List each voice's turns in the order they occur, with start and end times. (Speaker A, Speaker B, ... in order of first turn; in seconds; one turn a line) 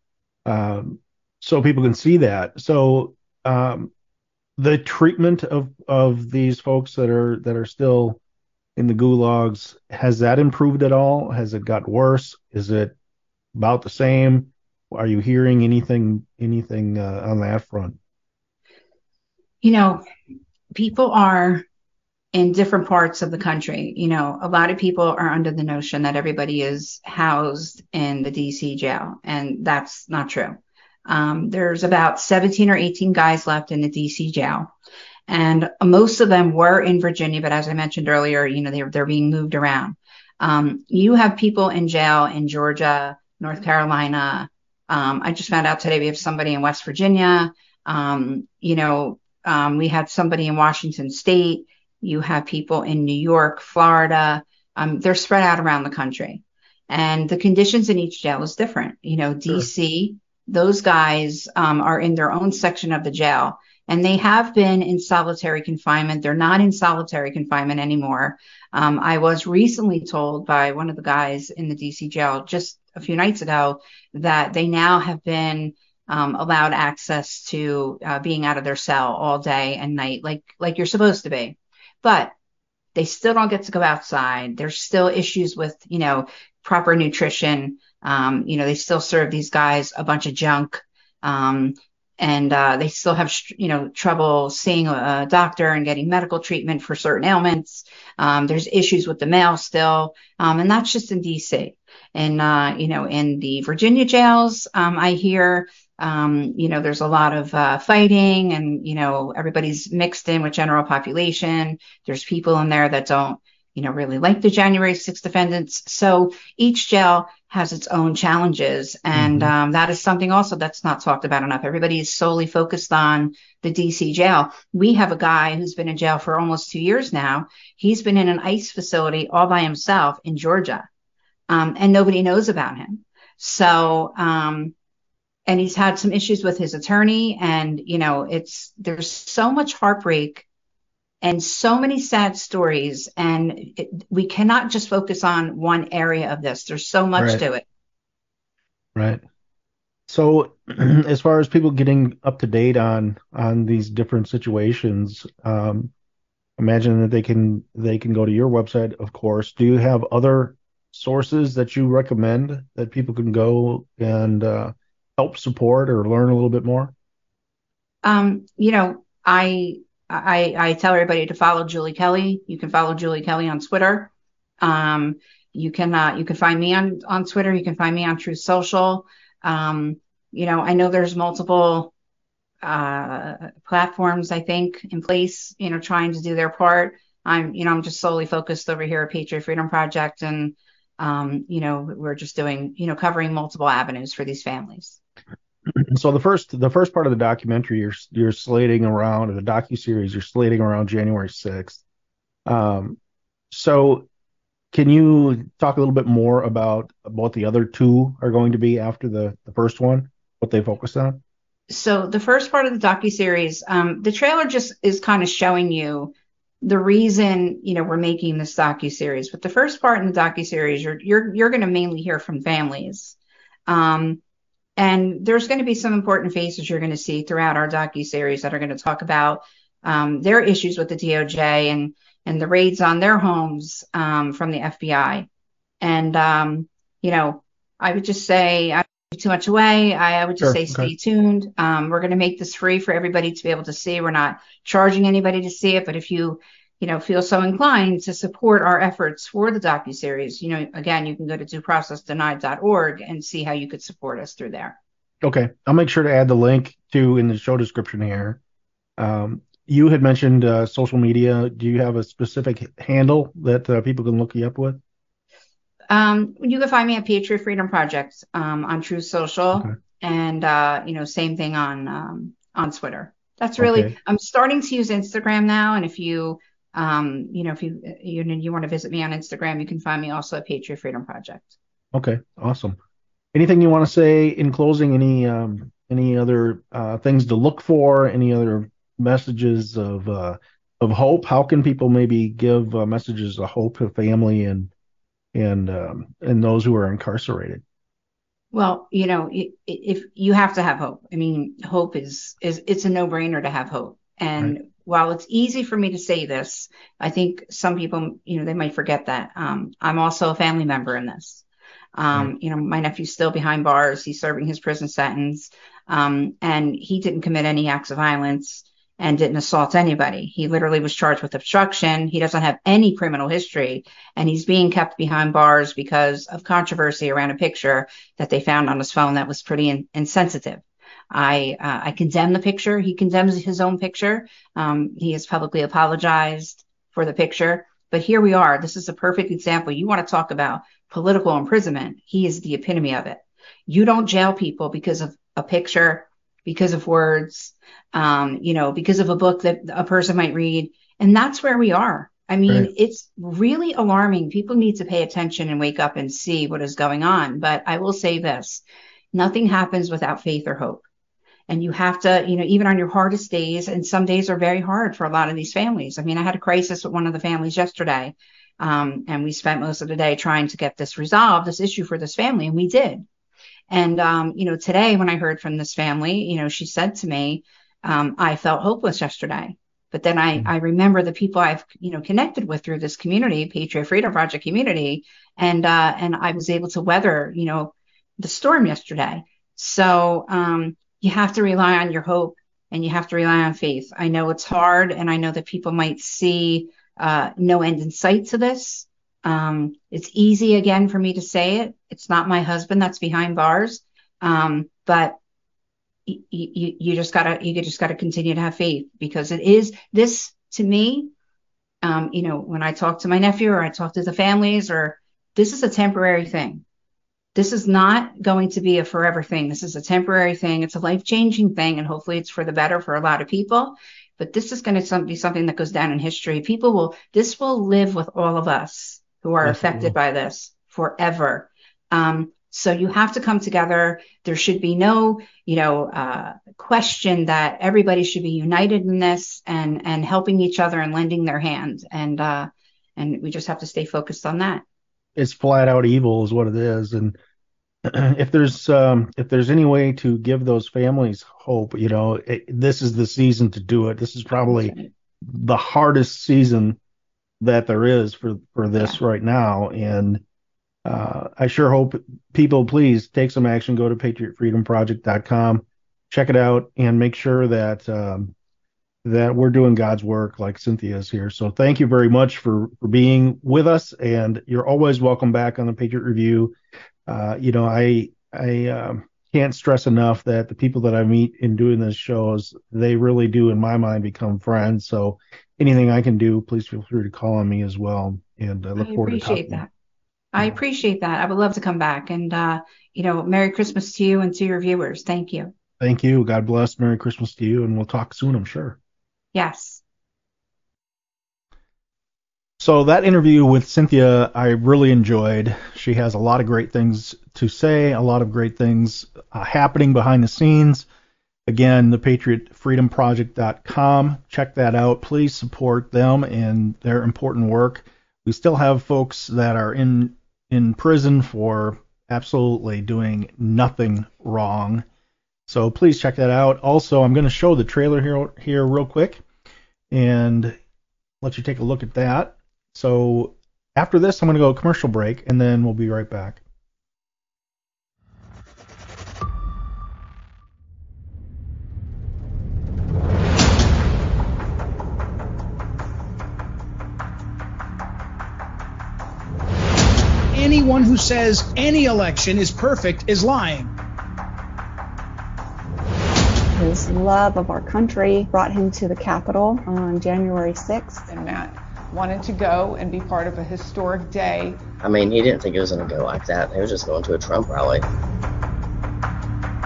Speaker A: 0.5-3.9
Speaker A: 4.6-8.2
Speaker A: 8.8-12.9
Speaker A: 13.5-18.0
Speaker B: 19.6-20.0
Speaker B: 20.7-21.6
Speaker B: 22.3-34.7
Speaker B: 35.3-82.3
Speaker B: 83.0-130.9
Speaker A: 119.1-119.5
Speaker B: 131.5-134.7
Speaker B: 135.5-140.4
Speaker B: 141.2-147.6
Speaker A: 147.2-147.4
Speaker A: 148.9-149.2
Speaker A: 150.1-155.9
Speaker A: 156.6-166.9
Speaker B: 168.0-181.9
Speaker B: 182.6-195.0
Speaker A: 195.7-201.8
Speaker A: 202.4-203.0
Speaker A: 203.5-204.1
Speaker A: 204.7-211.2
Speaker B: 211.7-223.2
Speaker B: 223.7-224.2
Speaker B: 224.8-235.3
Speaker B: 235.8-254.8
Speaker A: 240.4-240.9
Speaker A: 255.2-258.4
Speaker A: 259.0-264.8
Speaker B: 265.9-281.6
Speaker A: 273.6-273.9
Speaker A: 281.9-282.8
Speaker A: 283.3-294.7
Speaker A: 295.3-297.6
Speaker B: 298.5-311.4
Speaker B: 311.9-358.6
Speaker B: 359.1-360.8
Speaker B: 361.5-373.0
Speaker B: 373.7-405.2
Speaker B: 406.1-411.1
Speaker B: 411.8-416.6
Speaker B: 417.3-444.6
Speaker A: 429.4-429.9
Speaker A: 445.1-447.1
Speaker A: 447.8-456.8
Speaker B: 454.5-454.8
Speaker A: 457.4-460.2
Speaker A: 460.8-468.3
Speaker A: 469.0-476.5
Speaker A: 477.1-489.6
Speaker B: 488.8-489.7
Speaker B: 490.3-495.5
Speaker A: 495.8-498.8
Speaker B: 499.3-499.8
Speaker A: 502.6-510.9
Speaker A: 511.5-524.8
Speaker A: 525.5-529.2
Speaker A: 529.9-530.6
Speaker A: 531.2-536.4
Speaker C: 550.3-553.7
Speaker D: 556.5-561.0
Speaker E: 561.1-564.6
Speaker F: 564.8-567.8